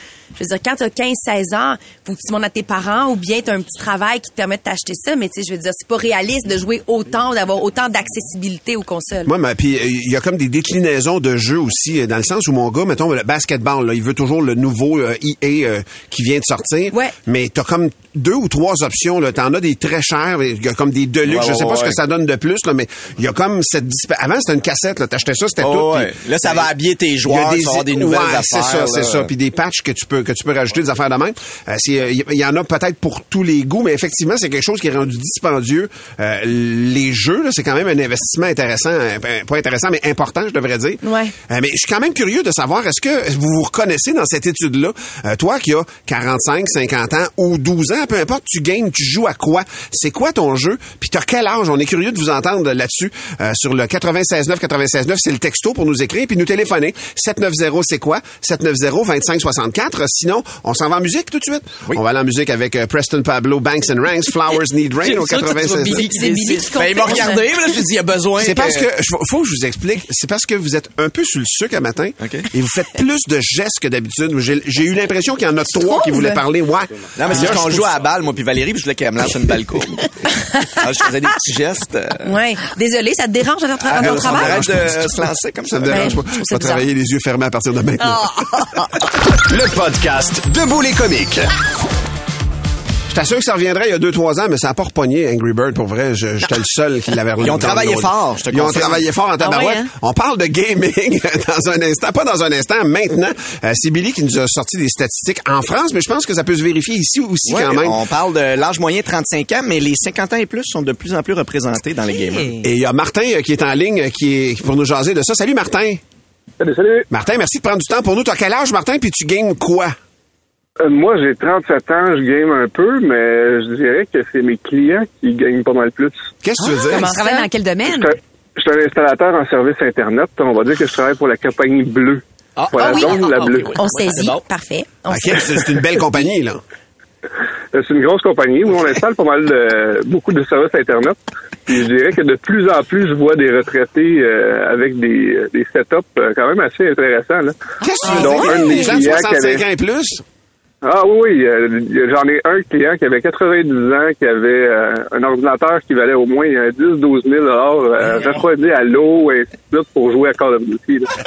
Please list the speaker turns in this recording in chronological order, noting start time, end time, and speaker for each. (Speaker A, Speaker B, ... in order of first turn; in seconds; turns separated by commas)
Speaker A: 0.3-9.3, Speaker B: 9.2-26.7, Speaker C: 21.2-22.0, Speaker C: 25.6-29.3, Speaker B: 27.2-66.1, Speaker A: 41.0-41.3, Speaker C: 65.3-68.9, Speaker D: 65.5-67.4, Speaker A: 66.1-67.4, Speaker B: 68.4-78.0, Speaker C: 72.2-72.5, Speaker A: 75.9-76.4, Speaker C: 77.2-80.1, Speaker C: 80.8-82.3, Speaker A: 82.2-84.7, Speaker C: 83.8-86.2, Speaker B: 83.9-88.7, Speaker A: 85.9-86.8, Speaker E: 89.3-91.5, Speaker B: 93.1-108.0, Speaker C: 97.4-99.0, Speaker D: 99.4-99.8, Speaker C: 107.5-112.6, Speaker D: 112.1-112.5, Speaker B: 112.6-116.0, Speaker F: 116.6-117.0, Speaker B: 117.1-119.9, Speaker F: 120.8-126.3, Speaker B: 126.4-127.1, Speaker D: 126.7-128.1, Speaker A: 126.8-127.5, Speaker F: 127.9-133.7, Speaker C: 132.6-134.4, Speaker A: 132.8-135.8, Speaker B: 135.1-136.6, Speaker F: 137.7-149.6, Speaker B: 147.8-150.2, Speaker F: 150.8-161.1